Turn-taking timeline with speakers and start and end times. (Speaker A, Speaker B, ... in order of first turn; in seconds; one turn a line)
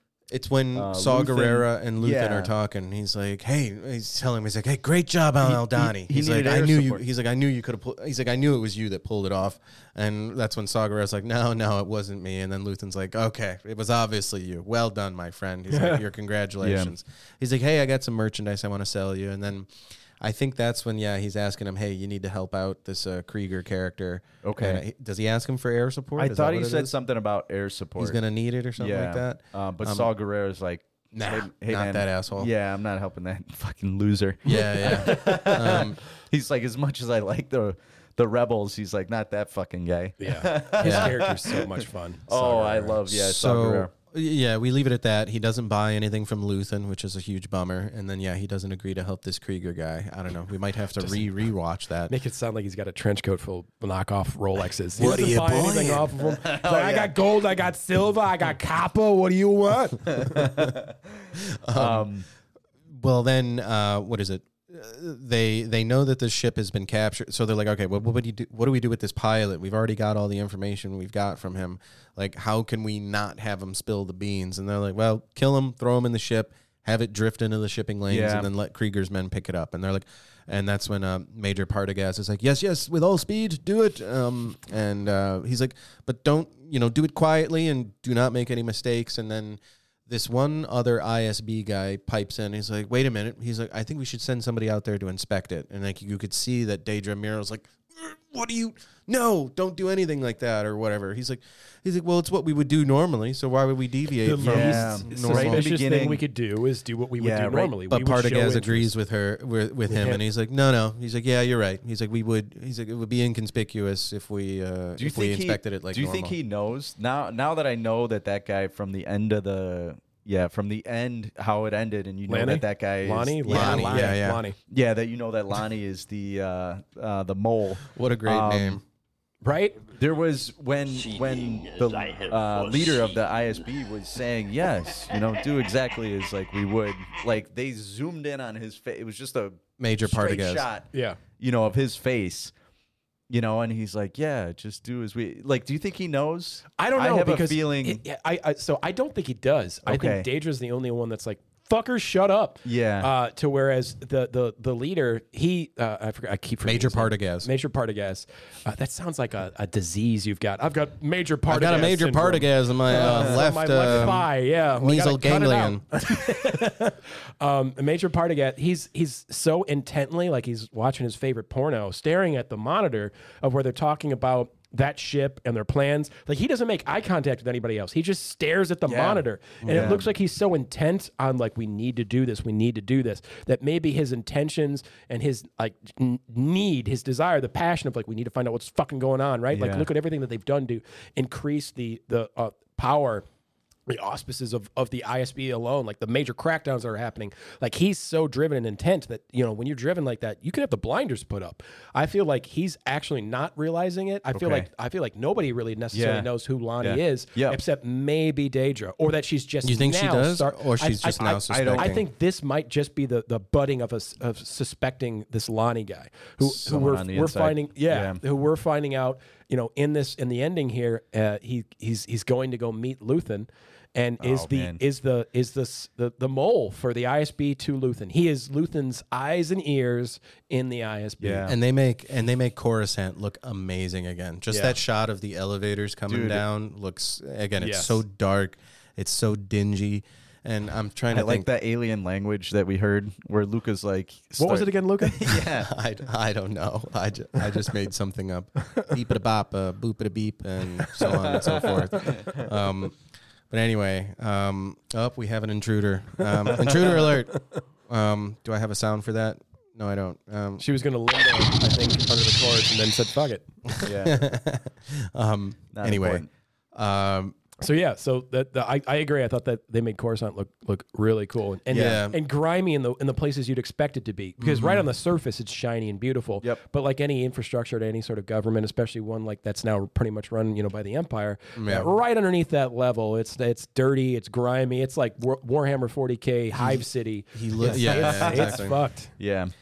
Speaker A: 0.3-26.9
Speaker B: 0.7-2.5
Speaker B: 5.4-7.0
Speaker C: 15.7-16.0
Speaker B: 16.6-16.9
Speaker B: 24.4-24.8
Speaker B: 26.2-28.2
Speaker A: 28.0-30.1
Speaker B: 28.8-43.9
Speaker A: 31.1-32.5
Speaker A: 34.4-36.0
Speaker C: 40.2-43.0
Speaker A: 40.8-41.2
Speaker A: 43.1-52.1
Speaker C: 51.0-51.2
Speaker C: 52.1-60.5
Speaker A: 55.0-56.1
Speaker B: 56.2-57.1
Speaker B: 60.1-62.2
Speaker A: 61.4-62.1
Speaker A: 62.9-105.7
Speaker B: 78.1-78.5
Speaker C: 104.2-108.9
Speaker B: 104.4-106.2
Speaker B: 107.2-107.7
Speaker A: 107.9-116.3
Speaker C: 109.9-110.2
Speaker B: 115.0-128.8
Speaker C: 122.3-124.6
Speaker A: 123.5-124.4
Speaker A: 127.8-128.8
Speaker C: 129.4-129.8
Speaker B: 129.9-140.9
Speaker A: 139.8-140.7
Speaker C: 140.9-141.2
Speaker B: 141.4-142.5
Speaker B: 143.3-148.0
Speaker C: 146.8-193.2
Speaker B: 149.8-150.2
Speaker B: 152.6-153.1
Speaker A: 156.6-157.5
Speaker A: 161.5-165.8
Speaker B: 178.9-180.1
Speaker A: 179.6-180.0
Speaker B: 189.5-189.9
Speaker C: 193.9-231.5
Speaker B: 204.3-204.7
Speaker B: 205.9-206.3
Speaker B: 206.8-207.6
Speaker A: 209.6-212.0
Speaker B: 211.2-212.0
Speaker B: 216.4-218.2
Speaker B: 224.2-224.8
Speaker B: 231.2-231.5
Speaker A: 231.5-241.5
Speaker C: 234.5-234.8
Speaker B: 236.1-236.4
Speaker C: 237.6-238.0
Speaker B: 241.1-245.7
Speaker C: 244.4-245.4
Speaker A: 245.2-253.0
Speaker B: 251.2-252.4
Speaker A: 253.5-257.4
Speaker C: 256.3-257.4
Speaker A: 257.9-260.6
Speaker C: 260.6-263.5
Speaker A: 263.7-267.4
Speaker B: 263.8-264.2
Speaker B: 265.7-266.3
Speaker C: 267.6-289.1
Speaker A: 271.7-272.2
Speaker A: 274.4-274.9
Speaker A: 281.6-281.9
Speaker A: 286.5-288.8
Speaker B: 287.7-288.6
Speaker B: 289.2-289.5